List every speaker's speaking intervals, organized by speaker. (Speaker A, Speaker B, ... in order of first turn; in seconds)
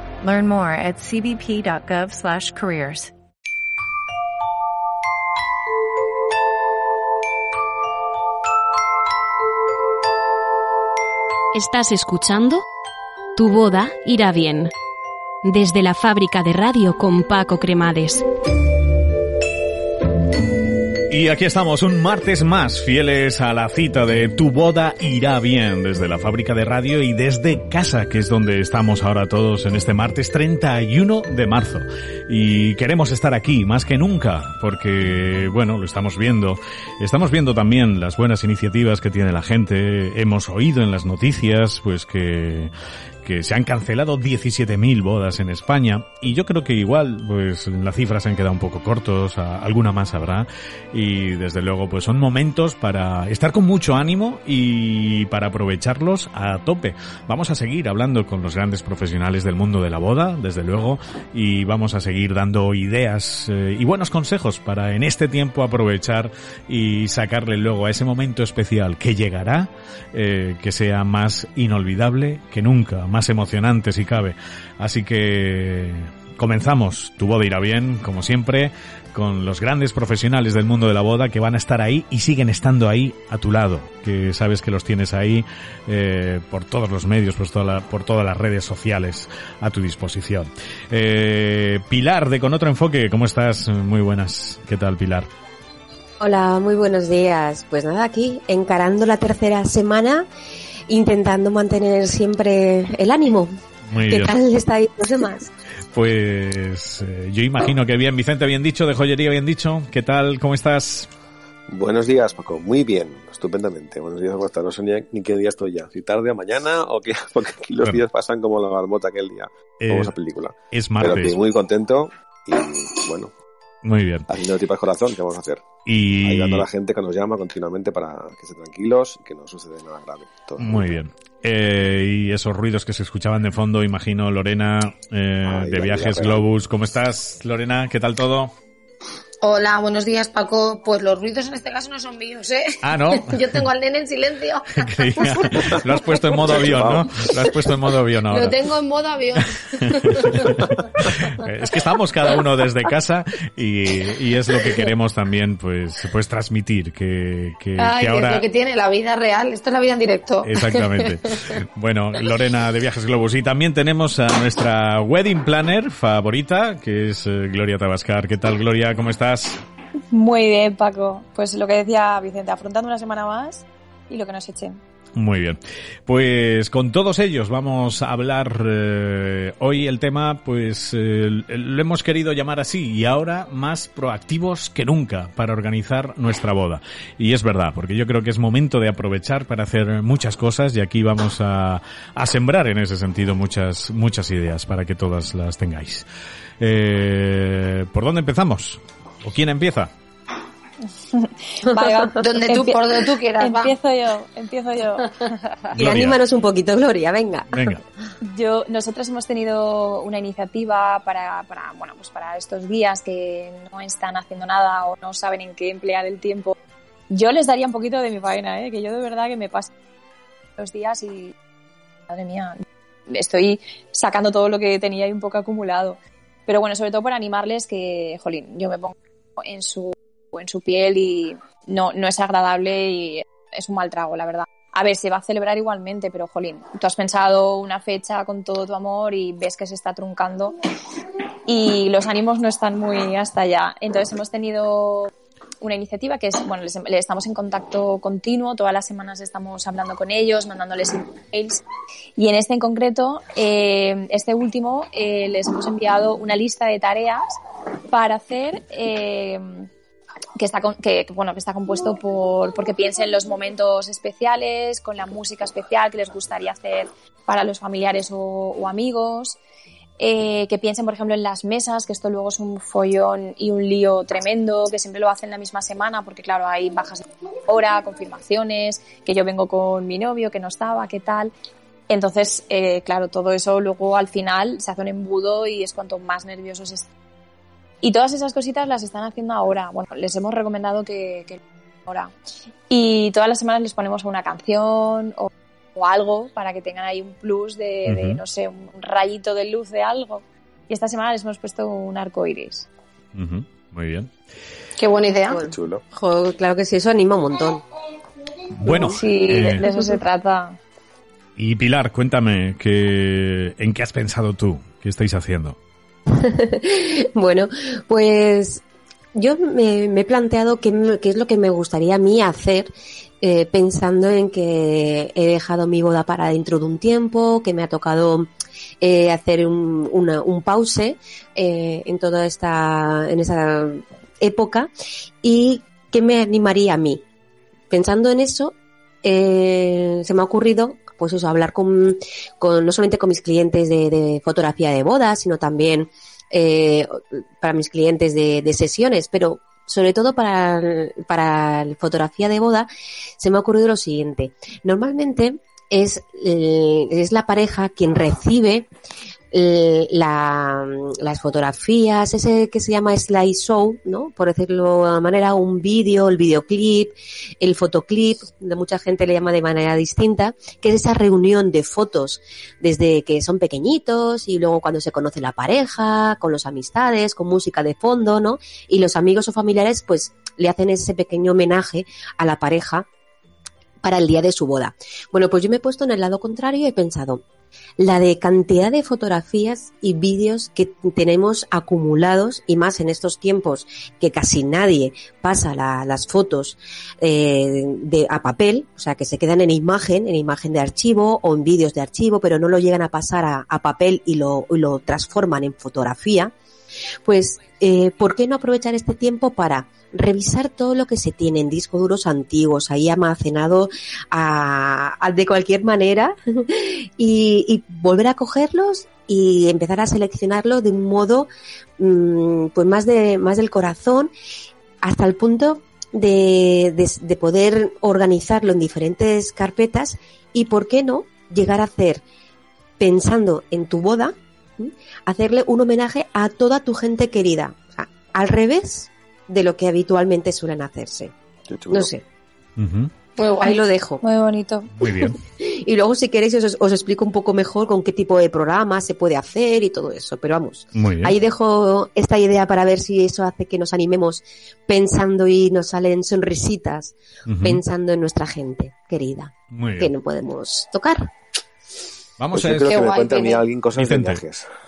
Speaker A: 0.2-3.1
Speaker B: 11.5-12.6, 13.4-14.7, 15.4-18.2
Speaker C: 21.1-42.7, 43.2-95.3, 103.9-104.3, 105.9-111.1, 119.8-120.1, 120.7-121.4, 123.8-124.3, 125.9-126.7, 130.6-138.5, 142.8-143.6, 144.8-148.6, 149.7-158.5, 160.4-169.6, 175.1-196.1, 196.6-199.9, 205.8-206.2, 207.5-207.8, 297.9-298.2, 303.1-304.1, 308.6-309.6, 311.4-315.6, 442.6-442.9, 444.8-445.2, 450.7-451.1, 457.3-457.6, 459.5-459.9, 462.2-462.8, 463.8-464.2
Speaker D: 96.2-100.3, 100.9-103.6, 104.1-105.5, 205.7-207.8, 305.3-307.6, 308.6-309.0, 316.1-318.6, 319.1-328.3, 328.8-334.7, 335.2-337.0, 337.7-358.7, 359.3-382.9, 383.8-387.2, 387.8-406.3, 407.1-424.1, 424.8-432.0, 432.8-441.1, 441.7-442.0, 443.4-444.0, 444.9-461.1
Speaker E: 111.7-123.3, 124.3-125.7, 126.2-131.0, 135.4-136.4, 145.5-145.8, 146.4-147.6, 305.4-305.8, 441.5-441.9, 462.3-464.5
Speaker F: 139.4-146.6, 148.3-150.8, 157.8-161.1, 202.1-203.7, 304.8-305.4, 443.2-443.6, 462.7-463.4
Speaker G: 170.1-174.8, 201.0-205.6, 208.2-216.6, 217.1-219.7, 220.6-221.3, 222.1-240.6, 241.5-251.6, 252.2-257.3, 257.9-259.7, 260.4-269.4, 270.0-281.3, 281.9-286.9, 287.8-292.1, 292.7-302.7, 308.7-310.6, 444.0-444.7